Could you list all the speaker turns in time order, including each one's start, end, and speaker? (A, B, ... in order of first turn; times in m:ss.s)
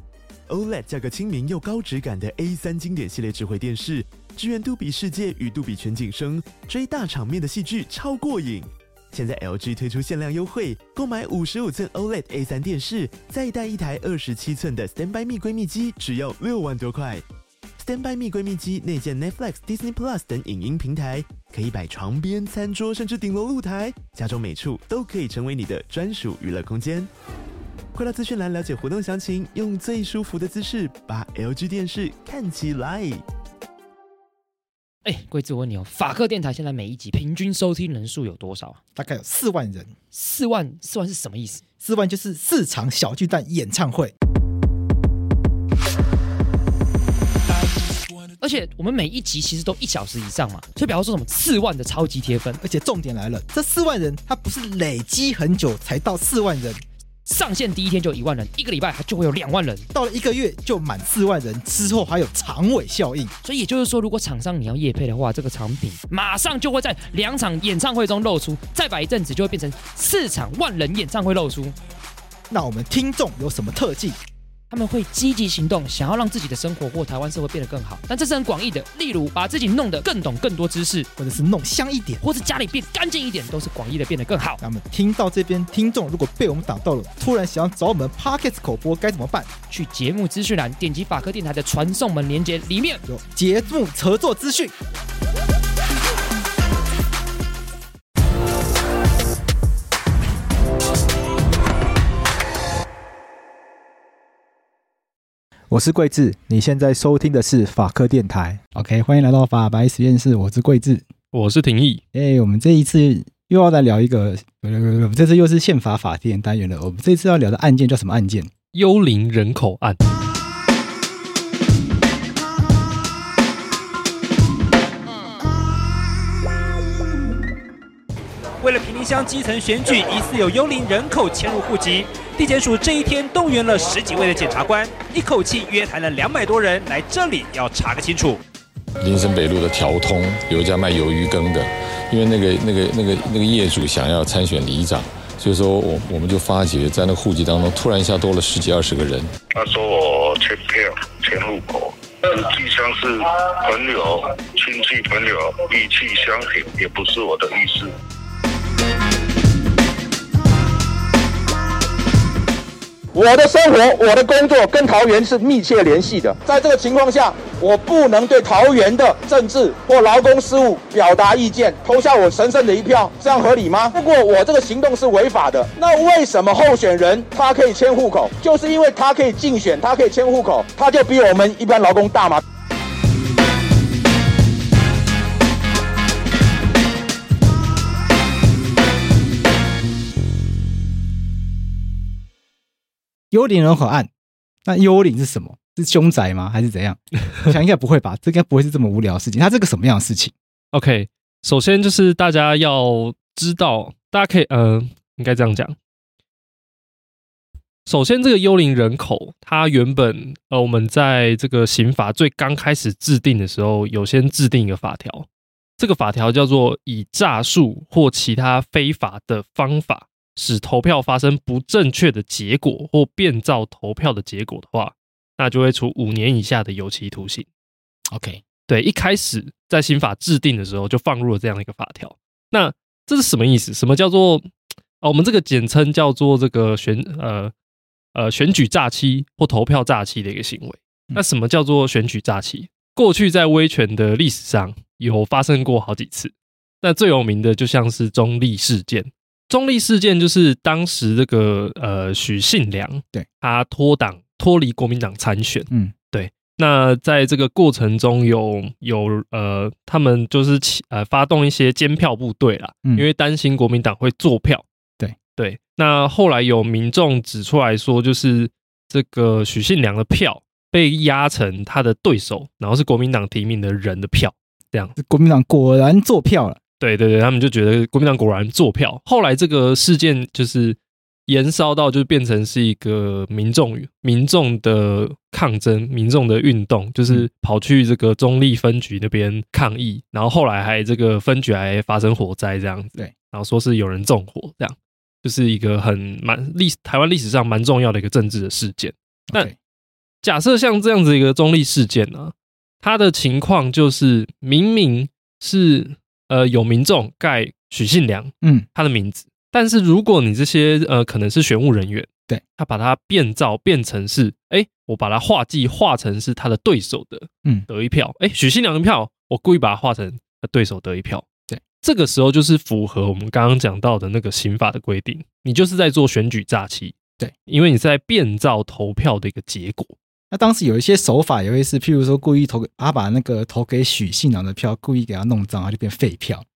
0:00.5-0:17.2 A
0:17.8-0:27.1 A
0:27.9-0:33.2 A
0:35.0-0:38.8 B
0:39.0-0:39.9 C
0:40.1-0:41.6 B
0:41.8-0:44.1 C
0:48.4-0:52.6 B
0:52.6-0:56.8 C
0:57.3-0:59.9 B
0:59.9-1:03.3 C
1:03.4-1:11.8 B
1:12.5-1:14.2 C
1:14.7-1:21.1 B
1:21.2-1:22.2 C
1:22.2-1:24.6 B
1:24.6-1:29.5 C
1:29.7-1:33.0 B
1:33.1-1:34.7 C
1:45.7-1:51.0 C
1:51.3-1:52.0 D
1:52.1-1:58.5 C
1:58.7-2:00.2 D
2:08.6-2:18.4 E
2:19.0-2:29.3 F
2:29.6-2:37.9 G
2:43.1-3:02.4 H
3:13.3-3:14.1 C
3:14.7-3:20.3 C
3:20.7-3:25.8 D
3:27.9-3:35.3 D
3:35.8-3:47.5 D
3:48.1-3:48.4 C
3:48.7-3:54.5 D
3:55.0-3:57.5 D
3:58.1-4:24.7 D
4:25.4-4:34.9 D
4:35.0-4:36.6 C
4:36.8-4:59.5 D
4:59.3-4:59.6 C
5:00.2-5:21.2 D
5:08.4-5:08.7 C
5:21.8-5:30.0 D
5:30.3-5:36.4 C